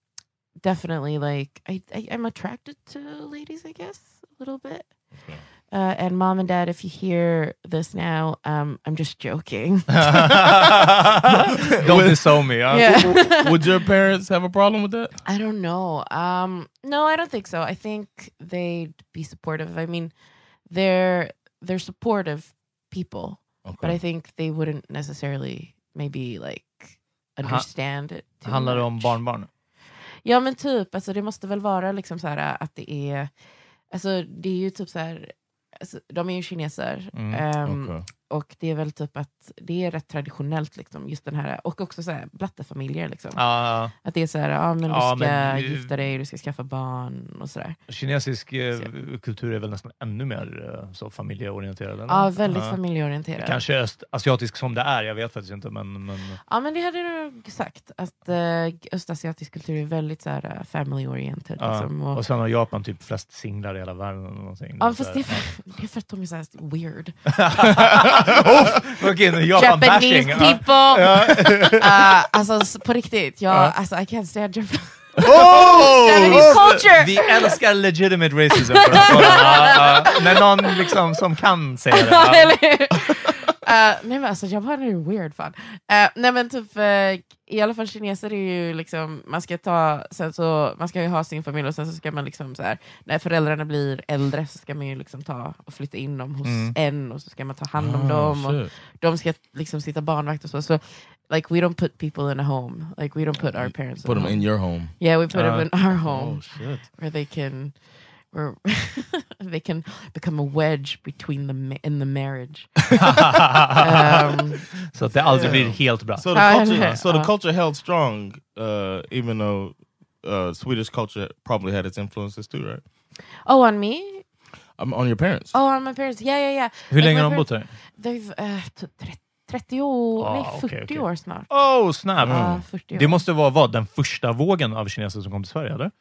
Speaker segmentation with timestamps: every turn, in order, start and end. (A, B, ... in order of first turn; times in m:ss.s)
0:00.6-0:04.9 A
0:05.2-0:05.4 B
0:05.7-0:10.6 A
0:09.9-0:13.1 C
0:11.8-0:15.2 B
0:12.7-0:13.6 A
0:15.2-0:20.1 A
0:20.7-0:29.2 A
0:23.6-0:24.0 B
0:27.4-0:27.7 C
0:28.2-0:29.5 C
0:30.2-0:33.3 A
0:33.9-0:43.4 A
0:37.1-0:37.4 C
0:37.6-0:38.0 B
0:43.3-0:43.9 C
0:43.9-0:47.8 A
0:44.9-0:45.9 C
0:47.9-0:52.8 C
0:52.1-0:53.6 A
0:53.4-0:56.4 C
0:56.5-1:02.2 A
1:01.6-1:05.4 C
1:04.8-1:07.1 A
1:07.4-1:12.2 C
1:09.5-1:17.6 A
1:15.2-1:22.5 C
1:15.3-1:16.8 B
1:18.7-1:20.9 A
1:21.9-1:46.4 A
1:36.4-1:36.7 C
1:37.7-1:38.7 B
1:43.4-1:45.0 B
1:45.3-1:45.7 C
1:45.8-1:46.8 B
1:46.9-1:52.9 A
1:52.9-1:56.2 C
1:53.8-1:54.6 A
1:55.3-2:02.8 B
1:56.3-1:57.3 A
2:03.4-2:04.2 A
2:04.8-2:05.5 B
2:05.5-2:11.5 A
2:06.9-2:07.7 C
2:10.2-2:15.9 C
2:12.2-2:12.6 B
2:12.2-2:13.2 A